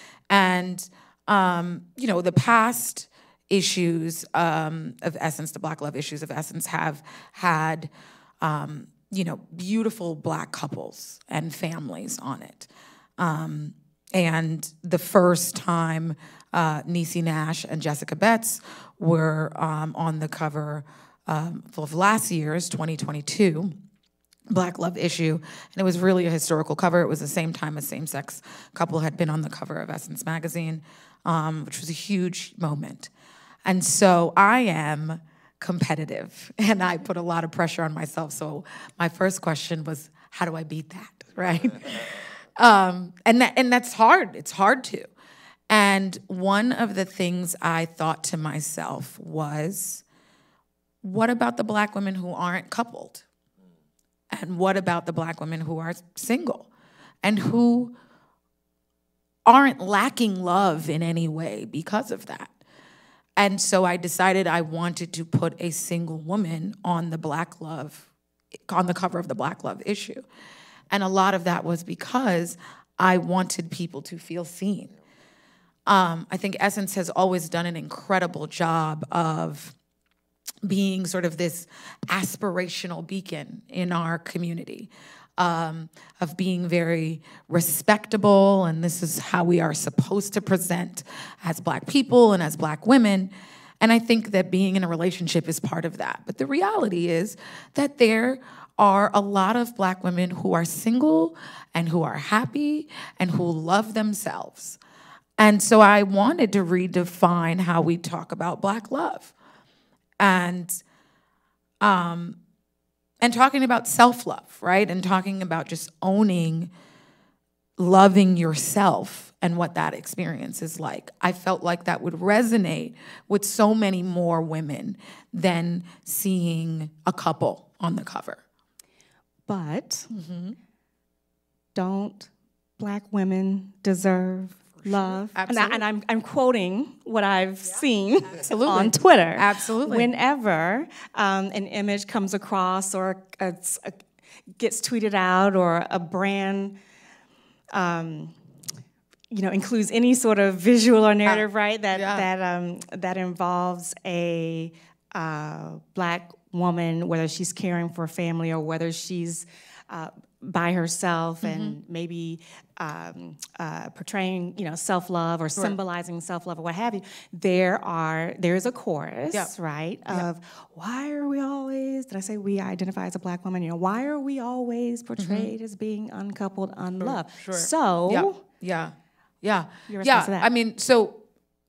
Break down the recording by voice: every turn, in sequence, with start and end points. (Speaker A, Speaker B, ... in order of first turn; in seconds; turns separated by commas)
Speaker A: 0.3-23.7, Speaker A: 24.5-33.1, Speaker A: 33.6-45.1, Speaker A: 45.7-50.0, Speaker A: 51.0-53.2, Speaker A: 54.3-56.7, Speaker A: 57.2-57.9, Speaker A: 59.5-62.5, Speaker A: 63.4-68.1, Speaker A: 68.7-70.2, Speaker A: 70.9-74.9, Speaker A: 75.9-79.7, Speaker A: 80.6-104.8, Speaker A: 105.4-109.3, Speaker A: 110.2-110.8, Speaker A: 111.8-112.4, Speaker A: 113.2-116.7, Speaker A: 117.8-128.4, Speaker B: 129.5-130.1, Speaker A: 130.1-130.6, Speaker B: 131.7-143.9, Speaker A: 134.8-135.8, Speaker A: 138.4-140.1, Speaker B: 144.6-146.8, Speaker B: 147.7-148.3, Speaker B: 149.3-178.4, Speaker A: 151.2-152.3, Speaker A: 161.4-161.8, Speaker A: 175.2-175.5, Speaker A: 177.0-181.2, Speaker B: 179.9-180.5